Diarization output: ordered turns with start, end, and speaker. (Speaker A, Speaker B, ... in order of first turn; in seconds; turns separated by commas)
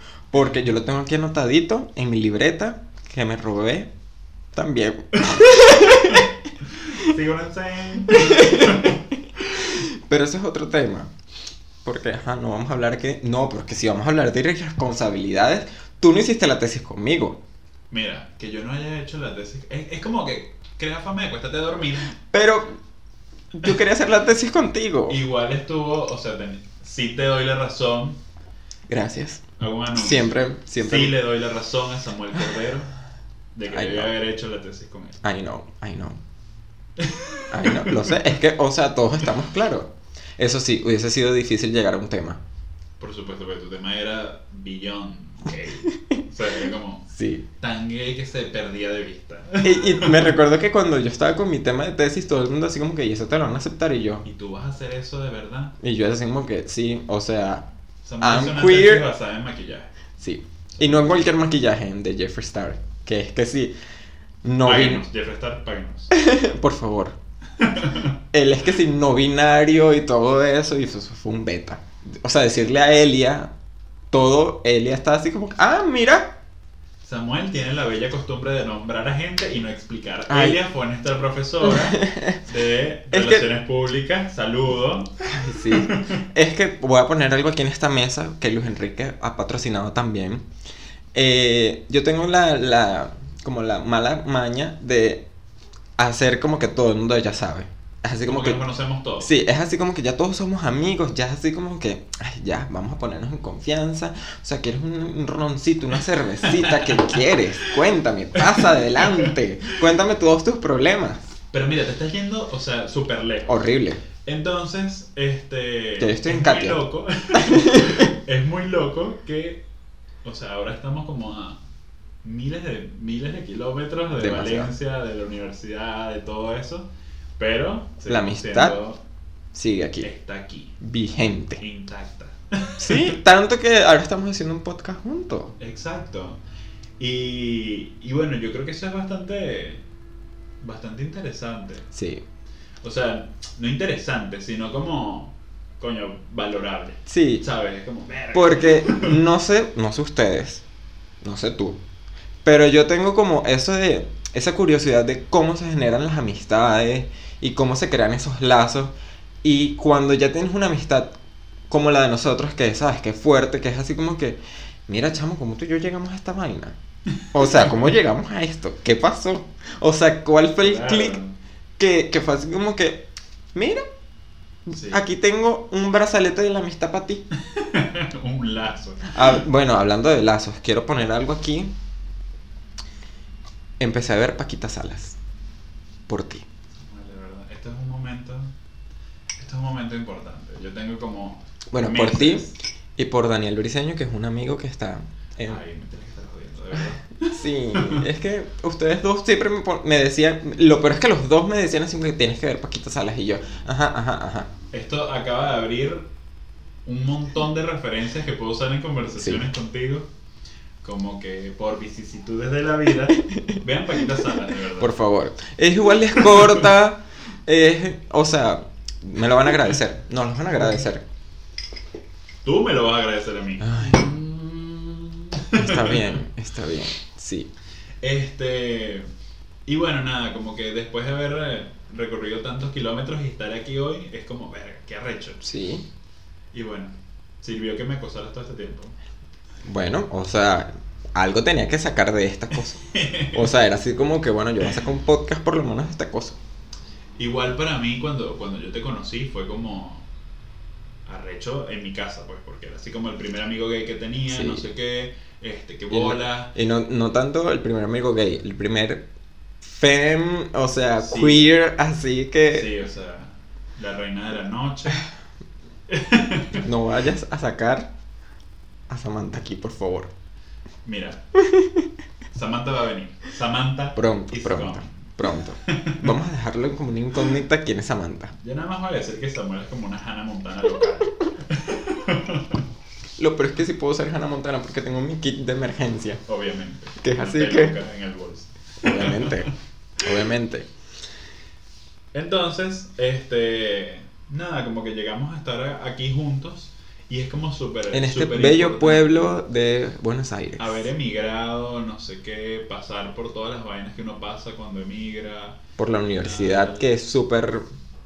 Speaker A: 0.3-3.9, Speaker A: 4.5-6.3, Speaker B: 5.2-9.0, Speaker A: 8.1-8.9, Speaker A: 9.7-11.1, Speaker A: 11.8-17.4, Speaker B: 17.9-22.1, Speaker A: 22.3-22.7, Speaker A: 23.5-25.2, Speaker B: 25.1-28.2, Speaker A: 28.9-29.4, Speaker B: 29.6-32.9, Speaker A: 29.9-31.2, Speaker B: 33.5-35.2, Speaker A: 33.7-34.1, Speaker A: 35.2-36.2, Speaker B: 37.0-38.3, Speaker A: 37.5-42.4, Speaker B: 43.0-50.4, Speaker A: 47.1-47.4, Speaker A: 49.6-54.2, Speaker B: 54.2-55.7, Speaker A: 55.8-57.6, Speaker B: 58.0-59.9, Speaker A: 58.2-59.1, Speaker A: 60.2-63.7, Speaker B: 60.7-61.2, Speaker A: 64.4-65.0, Speaker B: 64.6-66.1, Speaker A: 66.1-67.1, Speaker B: 67.6-68.1, Speaker A: 68.3-73.5, Speaker A: 74.1-76.3, Speaker B: 77.0-85.1, Speaker A: 80.3-80.6, Speaker A: 81.6-82.4, Speaker A: 83.1-83.5, Speaker A: 85.2-90.4, Speaker B: 85.7-86.2, Speaker A: 91.1-95.2, Speaker A: 96.0-98.6, Speaker B: 98.2-99.3, Speaker A: 99.2-111.3, Speaker B: 106.4-107.7, Speaker B: 108.4-109.3, Speaker B: 111.5-113.6, Speaker A: 113.5-114.0, Speaker B: 114.2-119.6, Speaker A: 116.0-118.1, Speaker B: 120.2-121.6, Speaker B: 122.2-129.0, Speaker A: 124.1-124.7, Speaker A: 128.1-128.8, Speaker A: 129.5-130.1, Speaker B: 130.0-130.8, Speaker A: 130.8-131.6, Speaker B: 131.6-133.2, Speaker A: 132.8-135.5, Speaker B: 135.6-136.4, Speaker B: 137.0-139.8, Speaker B: 140.6-141.9, Speaker A: 141.9-142.2, Speaker B: 142.8-149.2, Speaker A: 147.1-147.4, Speaker A: 148.3-150.6, Speaker A: 151.2-151.8, Speaker A: 152.4-161.1, Speaker A: 161.7-166.8, Speaker A: 167.3-171.2, Speaker B: 167.3-167.9, Speaker B: 170.6-171.3, Speaker A: 171.8-173.8, Speaker A: 174.7-177.2, Speaker B: 174.7-175.0, Speaker B: 177.5-179.4, Speaker A: 179.1-181.7, Speaker A: 183.8-185.2, Speaker A: 186.1-186.4, Speaker B: 186.8-188.5, Speaker B: 189.4-192.6, Speaker A: 191.7-195.6, Speaker B: 195.4-198.0, Speaker A: 197.2-204.5, Speaker B: 204.7-206.1, Speaker B: 206.9-210.1, Speaker A: 209.2-209.4, Speaker B: 210.8-214.9, Speaker A: 214.8-221.0, Speaker B: 216.1-216.7, Speaker B: 222.4-226.2, Speaker A: 223.6-224.0, Speaker A: 225.6-227.5, Speaker B: 228.0-229.1, Speaker B: 229.7-235.4, Speaker A: 235.4-235.8, Speaker B: 236.5-238.9, Speaker A: 239.6-246.4, Speaker B: 242.5-243.5, Speaker B: 247.2-250.1, Speaker B: 251.1-256.5, Speaker A: 254.3-254.7, Speaker A: 255.9-259.1, Speaker A: 259.6-262.7, Speaker B: 261.0-261.5, Speaker B: 262.5-265.0, Speaker B: 265.9-266.6, Speaker A: 266.6-267.9, Speaker A: 268.9-270.1, Speaker B: 270.8-271.2, Speaker B: 272.3-275.1, Speaker A: 273.9-278.3, Speaker B: 275.6-276.1, Speaker B: 278.4-282.6, Speaker A: 283.2-286.2, Speaker B: 286.3-289.5, Speaker A: 287.0-287.8, Speaker A: 288.8-290.7, Speaker B: 292.1-299.4, Speaker A: 297.9-300.8, Speaker B: 300.6-305.6, Speaker A: 305.8-307.6, Speaker B: 306.1-306.9